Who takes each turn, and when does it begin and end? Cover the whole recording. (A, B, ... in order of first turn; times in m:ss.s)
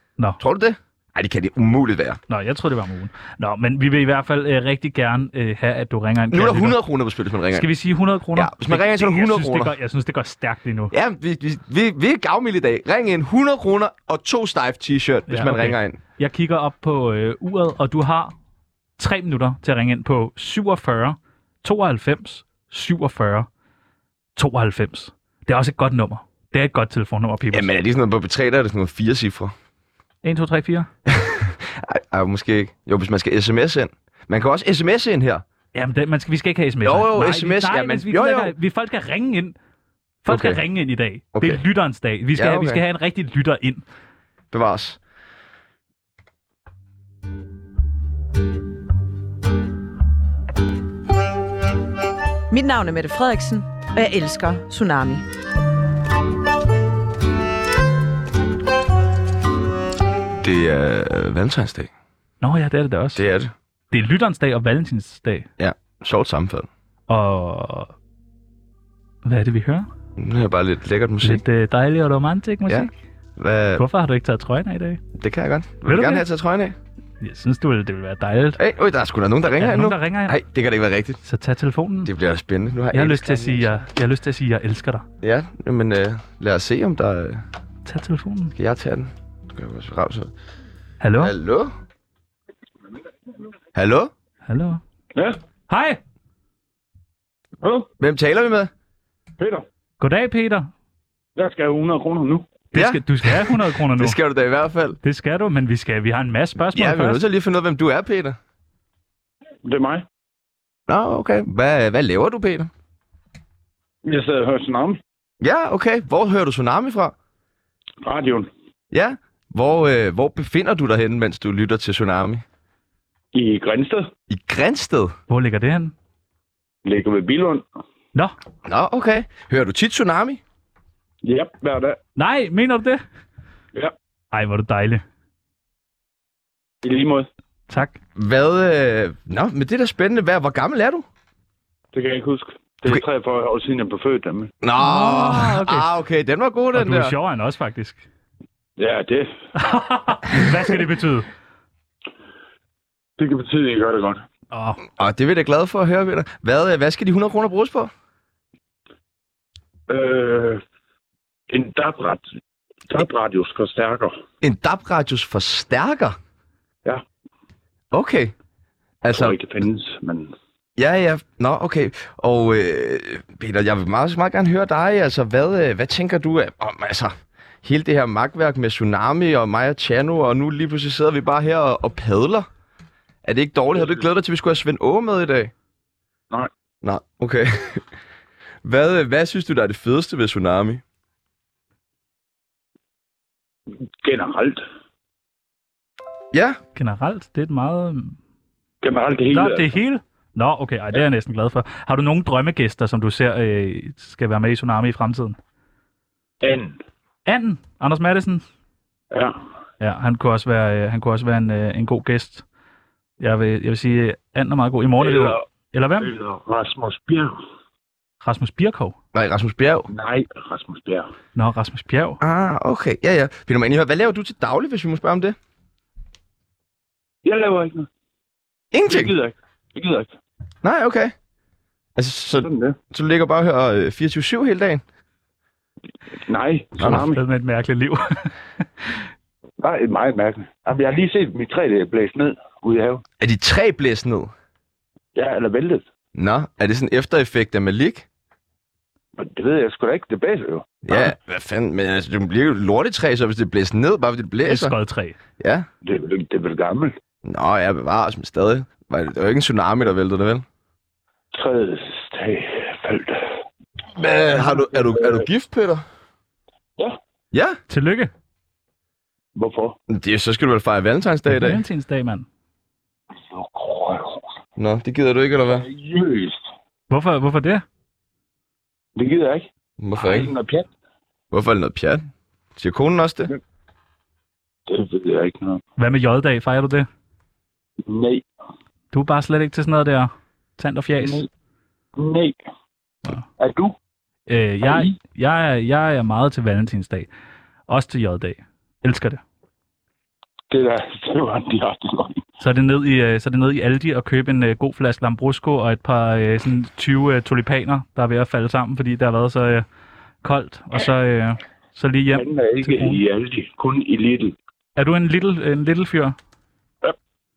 0:00.4-0:02.2 A
0:02.3-0:06.8 B
0:06.3-0:07.7 A
0:07.5-0:10.9 B
0:08.3-0:09.7 A
0:10.9-0:16.0 A
0:15.3-0:18.3 B
0:19.0-0:23.5 B
0:24.4-0:27.7 B
0:27.5-0:29.5 A
0:30.2-0:30.9 B
0:31.0-0:35.4 A
0:35.7-0:39.5 B
0:36.8-0:38.5 A
0:40.2-0:43.8 B
0:40.3-0:40.6 A
0:41.3-0:41.6 A
0:42.4-0:42.8 A
0:44.5-0:45.0 A
0:52.5-0:55.2 C
1:00.4-1:01.9 A
1:02.4-1:03.2 B
1:03.1-1:03.5 A
1:03.9-1:05.5 B
1:05.6-1:06.7 A
1:07.1-1:07.9 B
1:09.2-1:09.9 B
1:10.2-1:11.4 A
1:11.2-1:12.9 B
1:12.7-1:13.8 A
1:13.8-1:15.0 B
1:15.1-1:16.8 A
1:15.8-1:16.2 B
1:17.2-1:18.6 B
1:18.6-1:21.2 A
1:19.5-1:20.4 B
1:21.2-1:22.1 B
1:22.0-1:23.9 A
1:22.9-1:25.1 B
1:25.2-1:27.4 A
1:27.8-1:28.5 B
1:28.5-1:30.3 A
1:31.0-1:31.3 B
1:31.2-1:31.7 A
1:33.7-1:34.1 A
1:34.4-1:34.8 B
1:35.7-1:36.0 B
1:37.6-1:37.9 D
1:38.0-1:38.7 A
1:39.4-1:39.6 D
1:40.0-1:40.7 B
1:41.4-1:42.4 D
1:42.7-1:44.2 B
1:42.7-1:45.0 A
1:45.0-1:47.2 B
1:46.7-1:48.4 A
1:49.6-1:50.0 D
1:50.9-1:52.7 A
1:54.0-1:55.0 D
1:55.4-1:57.1 A
1:58.0-1:58.5 D
1:58.9-2:02.4 A
2:03.3-2:04.1 D
2:04.3-2:05.1 A
2:05.3-2:05.9 B
2:06.8-2:07.6 D
2:08.6-2:10.4 A
2:11.2-2:12.0 D
2:12.2-2:13.0 B
2:14.3-2:15.0 B
2:16.8-2:17.3 D
2:17.7-2:18.0 B
2:18.2-2:21.0 A
2:21.9-2:24.5 D
2:24.6-2:27.2 A
2:24.8-2:25.9 B
2:26.7-2:28.0 B
2:28.8-2:29.3 D
2:29.6-2:31.3 B
2:33.2-2:34.3 D
2:34.5-2:34.8 B
2:35.0-2:37.9 A
2:39.9-2:40.6 D
2:41.5-2:42.2 D
2:42.9-2:44.2 D
2:44.4-2:46.2 A
2:47.9-2:48.3 A
2:49.0-2:49.4 A
2:49.1-2:50.3 D
2:50.8-3:02.5 A
3:03.2-3:05.5 A
3:06.8-3:07.9 A
3:08.6-3:10.8 A
3:14.0-3:14.6 D
3:16.3-3:16.6 A
3:16.8-3:18.2 B
3:18.8-3:19.7 D
3:19.3-3:25.4 B
3:26.4-3:26.8 D
3:27.2-3:28.4 B
3:29.1-3:29.4 D
3:29.8-3:32.4 B
3:33.2-3:36.1 B
3:35.0-3:35.4 D
3:36.0-3:37.4 D
3:38.2-3:38.9 B
3:39.1-3:39.9 A
3:39.9-3:41.1 D
3:41.3-3:42.2 B
3:42.2-3:45.4 A
3:47.2-3:47.9 D
3:48.7-3:49.1 A
3:48.9-3:50.1 D
3:50.6-3:51.1 A
3:52.0-3:54.8 A
3:52.4-3:52.8 D
3:56.3-3:57.2 D
3:56.8-3:57.0 A
3:56.8-3:58.6 B
3:59.6-4:03.0 D
4:03.2-4:04.3 A
4:05.1-4:05.8 D
4:06.1-4:08.0 A
4:09.2-4:11.1 D
4:10.8-4:14.8 A
4:14.4-4:15.2 B
4:15.4-4:15.7 A
4:15.8-4:16.9 D
4:17.2-4:20.4 A
4:21.3-4:23.4 D
4:23.9-4:25.8 A
4:24.3-4:25.2 D
4:27.3-4:27.6 A
4:27.7-4:28.1 B
4:29.4-4:29.8 D
4:29.9-4:31.6 A
4:31.3-4:32.2 B
4:33.2-4:34.2 D
4:34.6-4:35.7 A
4:35.5-4:36.4 D
4:36.9-4:37.6 B
4:39.0-4:40.7 D
4:39.8-4:40.3 A
4:41.3-4:43.3 A
4:44.7-4:45.6 D
4:45.8-4:46.9 B
4:47.8-4:48.2 D
4:48.9-4:51.2 B
4:51.0-4:51.3 D
4:52.0-4:52.4 D
4:53.4-4:53.7 D
4:54.3-4:57.1 B
4:54.6-4:54.9 D
4:57.7-4:59.2 B
5:00.5-5:02.2 D
5:02.4-5:09.6 B
5:10.2-5:13.0 B
5:12.1-5:14.3 D
5:14.8-5:16.2 B